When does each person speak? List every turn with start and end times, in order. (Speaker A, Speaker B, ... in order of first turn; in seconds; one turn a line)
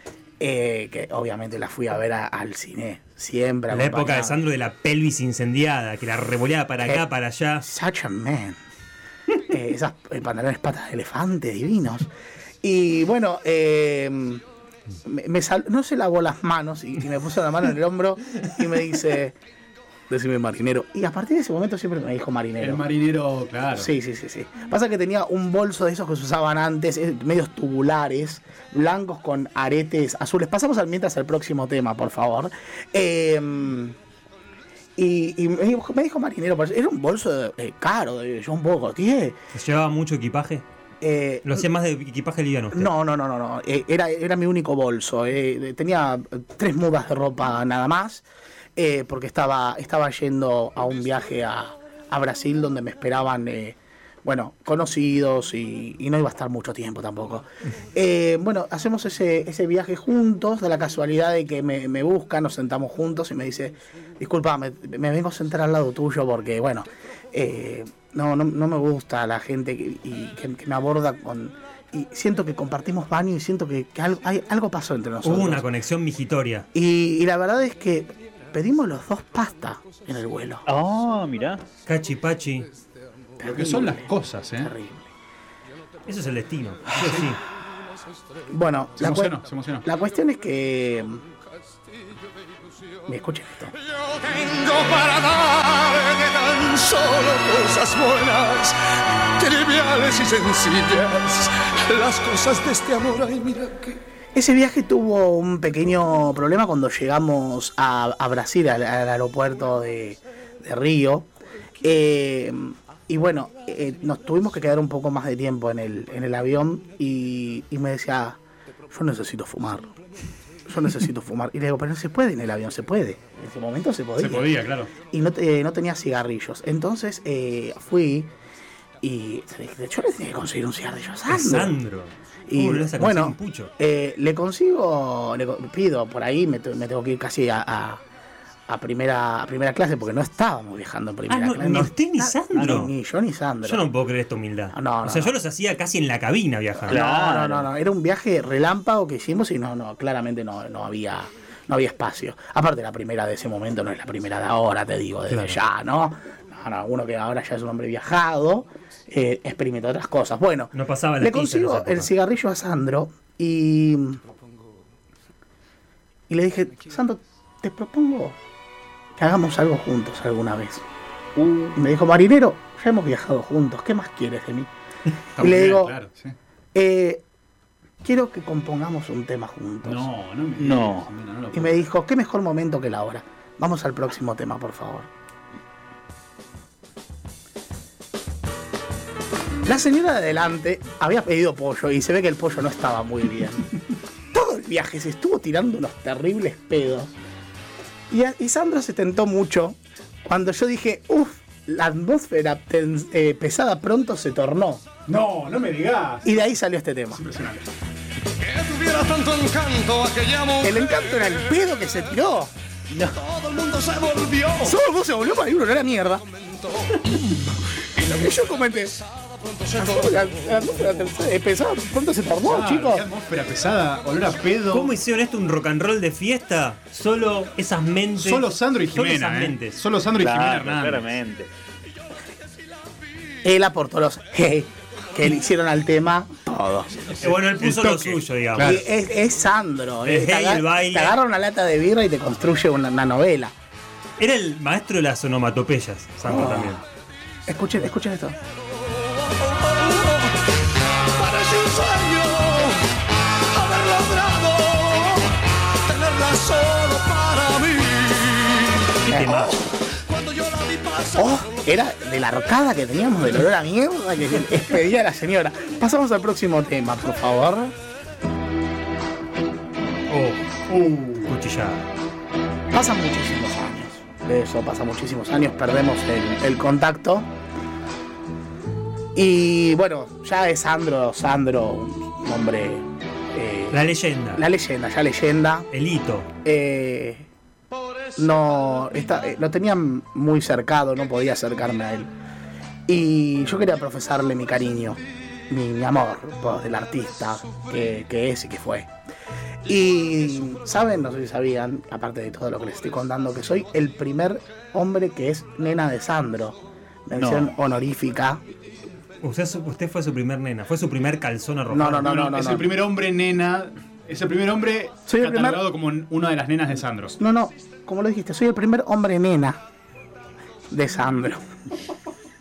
Speaker A: 0.4-4.4
Speaker B: 3.7-7.7
Speaker A: 7.6-8.6
Speaker A: 9.5-12.1
Speaker A: 12.6-14.4
Speaker A: 15.0-19.4
Speaker A: 20.1-22.8
Speaker C: 22.6-23.9
Speaker A: 23.8-34.0
Speaker A: 35.0-39.4
Speaker B: 39.5-40.6
Speaker A: 41.0-41.7
Speaker B: 41.4-42.9
Speaker A: 42.7-48.2
Speaker A: 48.8-75.7
Speaker B: 75.2-76.7
Speaker A: 76.7-80.7
Speaker D: 80.7-81.6
Speaker B: 81.8-82.7
Speaker A: 83.4-85.1
Speaker C: 83.5-84.7
Speaker B: 86.0-87.4
Speaker C: 87.0-87.3
Speaker A: 88.5-91.2
Speaker C: 89.0-89.8
Speaker A: 93.0-93.7
Speaker E: 94.2-98.8
Speaker E: 99.4-103.9
Speaker A: 104.3-111.3
Speaker A: 111.8-120.0
Speaker A: 120.7-128.3
Speaker C: 124.2-124.9
Speaker A: 129.0-131.7
Speaker B: 131.3-133.7
Speaker A: 132.5-138.0
Speaker A: 138.7-143.8
Speaker B: 141.3-142.9
Speaker D: 142.5-142.8
Speaker B: 143.6-147.0
Speaker A: 144.7-145.3
Speaker A: 146.8-164.2
Speaker D: 146.9-147.7
Speaker B: 155.3-155.6
Speaker B: 160.7-162.1
Speaker A: 166.3-168.4
Speaker A: 169.2-170.8
Speaker D: 171.3-171.8
Speaker A: 171.7-174.7
Speaker C: 175.4-176.3
Speaker A: 175.4-175.9
Speaker A: 176.7-177.2
Speaker A: 178.0-180.1
Speaker C: 179.8-181.8
Speaker D: 180.6-181.1
Speaker A: 181.5-185.1
Speaker A: 189.7-193.7
Speaker A: 194.3-197.1
Speaker A: 198.1-204.9
Speaker C: 205.1-206.4
Speaker A: 206.2-207.2
Speaker C: 207.1-207.7
Speaker E: 208.4-210.5
Speaker A: 210.5-212.5
Speaker D: 212.9-213.3
Speaker E: 213.3-214.5
Speaker A: 214.5-216.2
Speaker A: 217.8-219.0
Speaker A: 219.7-223.0
Speaker C: 222.4-224.9
Speaker B: 224.7-229.8
Speaker C: 228.2-231.1
Speaker D: 230.2-231.5
Speaker A: 233.4-243.5
Speaker B: 237.2-238.8
Speaker C: 238.6-238.8
Speaker B: 240.1-241.2
Speaker B: 244.2-246.8
Speaker A: 246.2-246.8
Speaker A: 247.5-248.3
Speaker E: 249.6-250.3
Speaker E: 251.1-252.8
Speaker E: 253.5-255.3
Speaker E: 255.8-258.8
Speaker B: 259.0-259.7
Speaker A: 259.1-259.6
Speaker E: 260.1-261.1
Speaker A: 261.1-267.7
Speaker B: 270.1-270.6
Speaker C: 270.7-271.3
Speaker B: 271.2-271.9
Speaker A: 272.7-277.3
Speaker A: 279.1-285.7
Speaker B: 283.7-284.4
Speaker B: 285.7-286.3
Speaker A: 286.4-287.3
Speaker A: 288.1-292.1
Speaker A: 292.9-298.9
Speaker A: 299.6-308.4
Speaker D: 307.1-307.5
Speaker B: 309.2-312.4
Speaker A: 311.7-312.7
Speaker C: 312.1-317.1
Speaker A: 315.1-315.6
Speaker A: 317.2-319.6
Speaker A: 320.7-321.4